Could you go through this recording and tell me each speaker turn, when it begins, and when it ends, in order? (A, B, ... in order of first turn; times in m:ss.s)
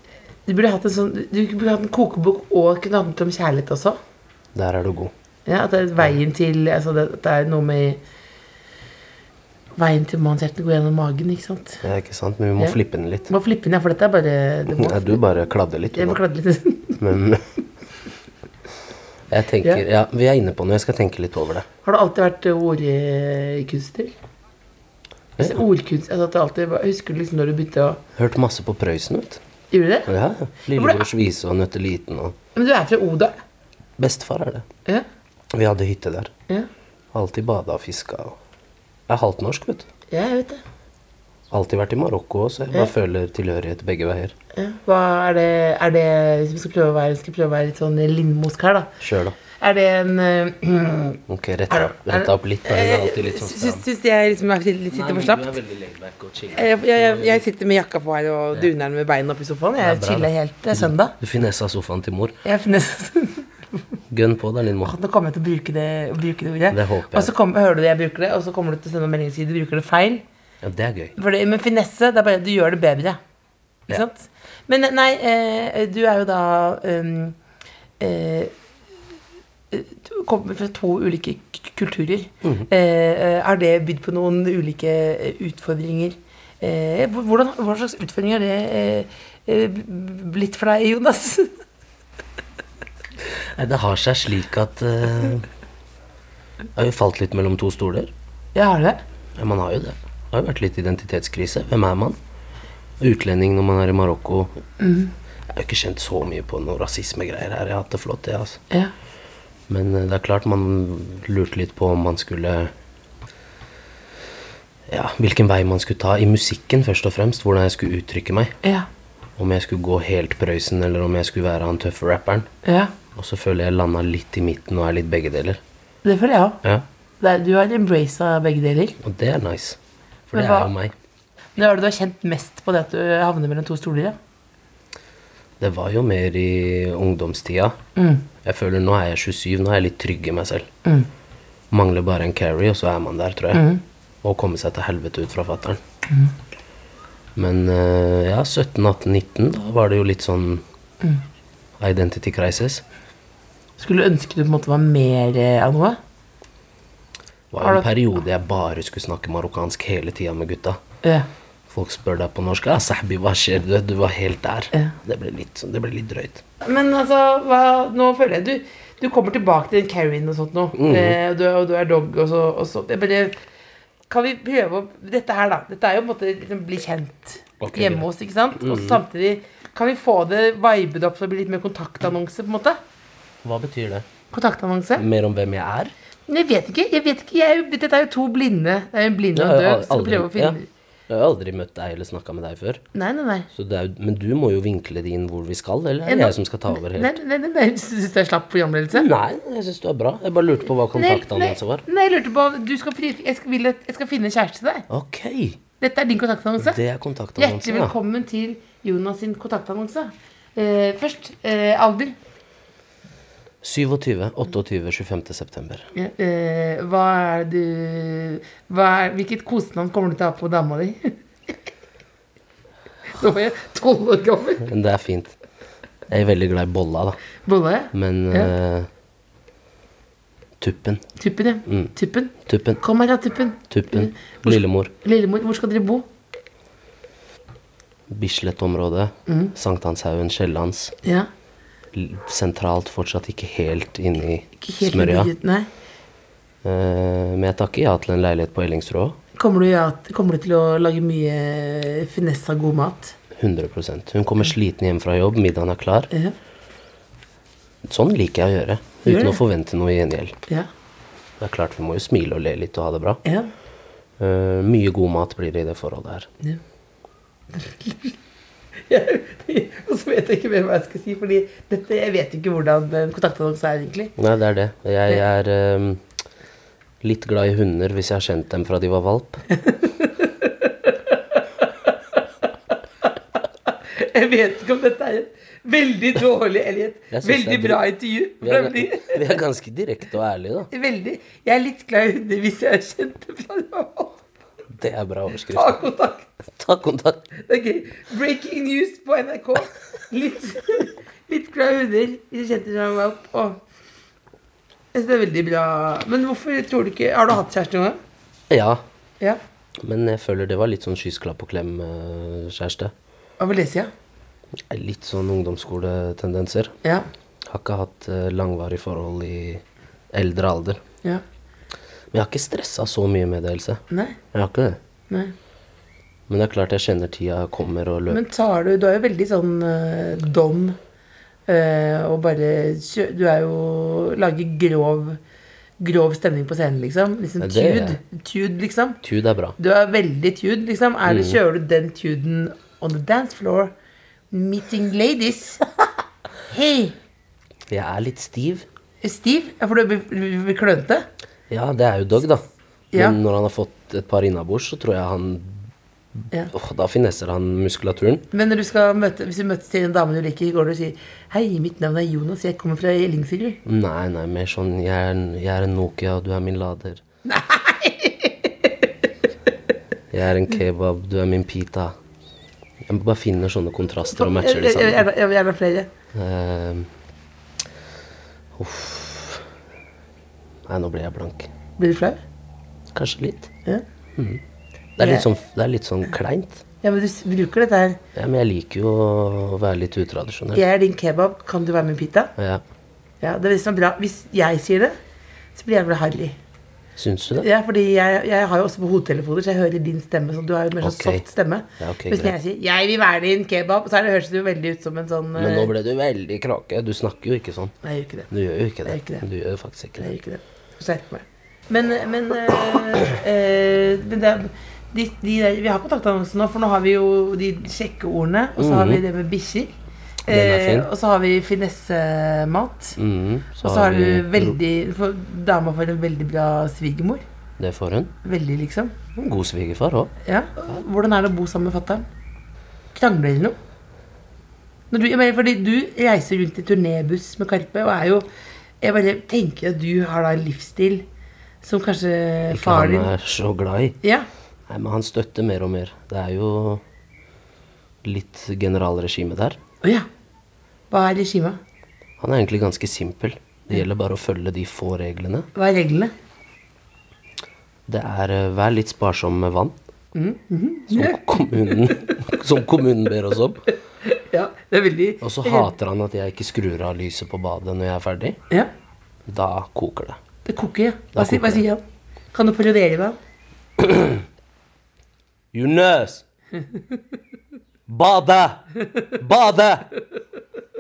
0:00.5-0:04.0 A
0:04.6-0:05.1 B
0:05.5-0:08.0 A
0:09.8-0:11.8 A
0:11.8-0:13.3 B
0:12.6-0:15.2 A
0:14.7-0:16.2 B
0:15.9-0:17.0 A
0:17.0-0:17.4 B
0:19.3-0:21.7 B
0:21.8-0:24.1 A
0:25.4-0:25.6 B
0:25.4-0:28.0 A
0:28.2-0:29.4 B
0:29.7-0:30.1 A
0:30.1-0:32.4 B
0:30.7-0:31.1 A
0:32.6-0:33.4 A
0:34.0-0:34.7 B
0:35.5-0:36.3 B
0:37.1-0:38.4 B
0:39.1-0:39.9 B
0:40.1-0:40.6 A
0:41.5-0:44.4 B
0:44.5-0:48.9 A
0:49.0-0:49.4 B
0:49.6-0:51.2 A
0:51.3-0:53.8 B
0:51.7-0:55.5 A
0:54.9-0:57.4 B
0:56.5-1:01.2 A
0:59.8-1:02.4 B
1:02.4-1:03.5 A
1:04.1-1:05.0 B
1:04.8-1:10.2 A
1:06.7-1:07.3 B
1:10.6-1:11.1 B
1:11.2-1:13.2 A
1:13.9-1:17.4 A
1:18.0-1:18.5 A
1:19.7-1:31.5 A
1:33.6-1:35.5 B
1:36.8-1:38.1 B
1:38.6-1:39.0 A
1:39.4-1:42.2 B
1:43.0-1:44.6 B
1:44.8-1:45.1 A
1:45.5-1:48.6 B
1:49.7-1:52.7 B
1:54.9-1:58.6 B
1:59.4-2:02.5 B
2:02.6-2:02.9 A
2:03.2-2:05.6 B
2:06.0-2:06.6 A
2:07.2-2:09.0 A
2:09.0-2:09.8 B
2:10.3-2:10.9 B
2:10.3-2:10.7 A
2:11.6-2:14.2 A
2:15.6-2:17.8 B
2:18.0-2:18.2 A
2:18.4-2:20.7 B
2:21.7-2:23.7 B
2:23.5-2:23.8 A
2:24.2-2:25.8 B
2:27.4-2:30.6 B
2:31.8-2:32.8 B
2:33.8-2:36.0 A
2:37.5-2:40.8 B
2:37.6-2:37.9 A
2:41.7-2:46.4 B
2:46.6-2:53.4 A
2:50.8-2:51.2 B
2:54.1-3:02.8 A
2:57.6-2:59.0 B
3:03.4-3:04.1 B
3:04.3-3:05.0 A
3:05.0-3:05.9 B
3:06.3-3:10.7 A
3:09.3-3:10.6 B
3:11.1-3:12.8 B
3:12.9-3:13.5 A
3:13.5-3:17.2 B
3:16.1-3:19.1 A
3:18.9-3:21.8 B
3:20.9-3:24.9 A
3:24.9-3:25.6 B
3:25.8-3:26.8 A
3:26.6-3:27.9 B
3:27.4-3:32.2 A
3:33.6-3:35.9 B
3:35.9-3:41.2 A
3:43.2-3:44.6 A
3:44.6-3:45.4 B
3:46.1-3:47.2 B
3:47.5-3:48.5 A
3:47.9-3:48.9 B
3:50.6-3:51.0 B
3:51.2-3:56.0 A
3:51.7-3:51.9 B
3:52.4-3:52.8 B
3:53.7-3:54.9 B
3:58.1-4:01.0 B
3:59.3-3:59.5 A
4:01.9-4:05.3 B
4:04.6-4:05.7 A
4:06.6-4:09.2 B
4:09.4-4:13.2 A
4:13.4-4:16.1 B
4:17.8-4:20.4 B
4:19.1-4:19.4 A
4:21.4-4:23.2 B
4:23.2-4:23.5 A
4:24.2-4:26.3 B
4:27.5-4:28.1 A
4:28.9-4:34.1 A
4:34.2-4:36.0 B
4:37.0-4:39.4 B
4:39.5-4:40.7 A
4:43.9-4:49.4 A
4:47.1-4:47.9 B
4:48.4-4:50.7 B
4:50.7-4:54.2 A
4:54.7-4:55.9 B
4:55.5-4:56.3 A
4:56.5-4:57.3 B
4:57.4-5:03.6 A
5:04.9-5:08.0 A
5:08.5-5:08.8 B
5:09.8-5:12.9 B
5:13.4-5:13.9 A
5:14.7-5:16.7 B
5:17.5-5:20.8 B
5:22.1-5:24.8 B
5:23.9-5:24.2 A
5:26.3-5:28.2 B
5:28.1-5:30.8 A
5:31.5-5:35.2 A
5:35.8-5:39.0 A
5:37.4-5:38.0 B
5:39.0-5:39.6 B
5:39.6-5:43.7 A
5:41.0-5:41.4 B
5:44.3-5:45.6 A
5:46.5-5:47.0 A
5:47.7-5:48.7 B
5:49.0-5:51.1 A
5:51.5-5:55.6 B
5:56.5-5:58.3 B
5:58.3-6:03.6 A
6:03.6-6:07.0 B
6:07.2-6:08.9 A
6:10.1-6:12.0 B
6:12.8-6:15.1 B
6:14.1-6:15.9 A
6:16.1-6:16.9 B
6:18.6-6:19.5 B
6:20.7-6:21.5 B
6:21.8-6:22.2 A
6:22.9-6:23.5 B
6:24.2-6:24.4 B
6:25.0-6:26.6 B
6:25.0-6:25.3 A
6:26.8-6:28.0 A
6:28.2-6:30.6 B
6:30.5-6:32.3 A
6:32.4-6:32.6 B
6:33.2-6:35.0 A
6:35.6-6:36.4 A
6:37.0-6:37.5 B
6:37.4-6:45.7 A
6:40.8-6:41.2 B
6:41.8-6:42.4 B
6:45.4-6:47.8 B
6:47.8-6:48.3 A
6:48.3-6:50.1 B
6:48.8-6:49.2 A
6:50.0-6:59.7 A
6:58.6-6:59.0 B
7:00.3-7:03.0 A
7:00.3-7:00.9 B
7:03.0-7:04.6 B
7:03.6-7:07.2 A
7:07.6-7:08.1 B
7:08.2-7:09.0 A
7:09.2-7:10.1 B
7:10.3-7:12.1 A
7:13.0-7:13.6 A
7:14.9-7:18.3 A
7:18.8-7:21.0 A
7:21.6-7:23.1 A
7:22.5-7:24.0 B
7:24.7-7:26.8 B
7:28.0-7:29.6 B
7:30.9-7:31.6 A
7:32.2-7:35.5 B
7:35.6-7:36.1 A
7:37.9-7:39.8 B
7:40.2-7:42.0 A
7:40.9-7:43.6 B
7:44.0-7:45.7 A
7:45.2-7:48.4 B
7:49.3-7:50.2 B
7:50.5-7:53.2 A
7:51.2-7:51.6 B
7:53.8-7:54.2 B
7:55.5-7:56.2 B
7:57.9-7:58.7 B
7:58.8-7:59.1 A
7:59.2-7:59.9 B